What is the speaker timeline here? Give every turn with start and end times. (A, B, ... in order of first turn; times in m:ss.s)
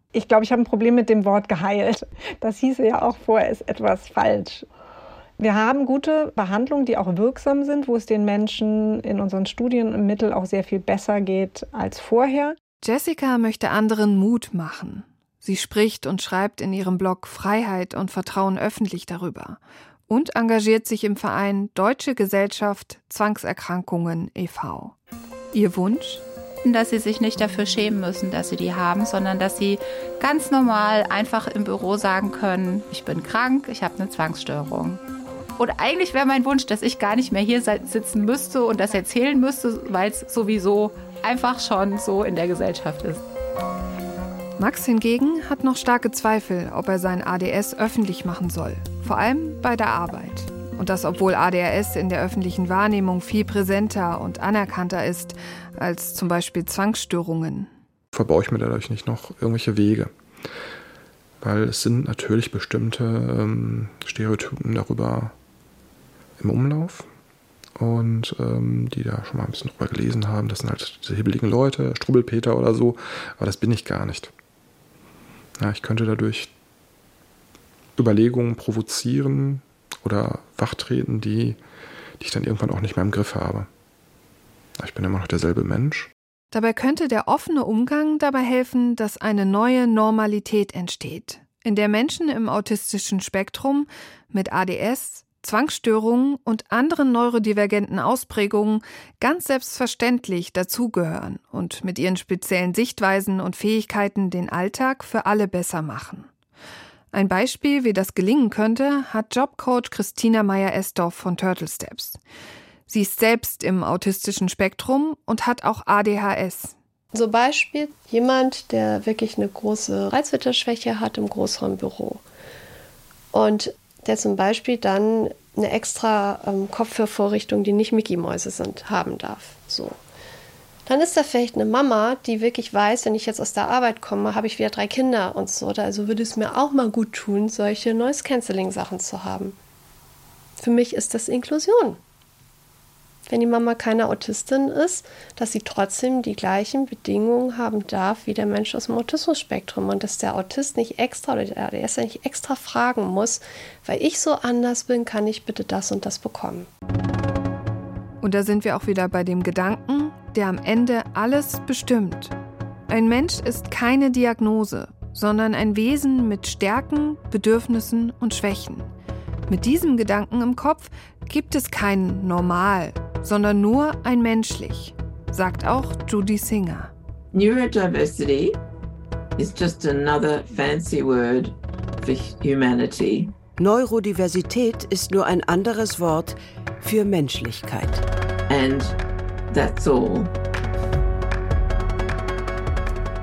0:00.1-0:04.6 A
0:05.4-0:12.5 A
0:12.8-0:24.9 B
0:25.5-0:26.2 B
0:26.6-0:35.0 C
0:35.6-0:43.2 C
0:44.6-0:57.7 B
0:58.1-1:00.1 D
1:01.4-1:05.3 D
1:06.4-1:07.1 D
1:07.8-1:14.3 D
1:15.6-1:16.5 D
1:18.0-1:21.6 D
1:22.2-1:23.7 D
1:24.8-1:26.1 D
1:26.5-1:46.3 B
1:47.1-1:52.2 B
1:52.9-1:56.7 B
1:57.1-2:02.2 E
2:03.3-2:10.0 E
2:10.8-2:19.6 E
2:20.6-2:22.0 E
2:23.3-2:36.7 E
2:38.2-2:42.3 B
2:42.9-2:48.9 B
2:49.5-2:56.9 B
2:57.3-2:58.6 F
2:59.4-3:03.3 F
3:03.6-3:08.0 G
3:08.5-3:09.0 F
3:09.5-3:10.3 F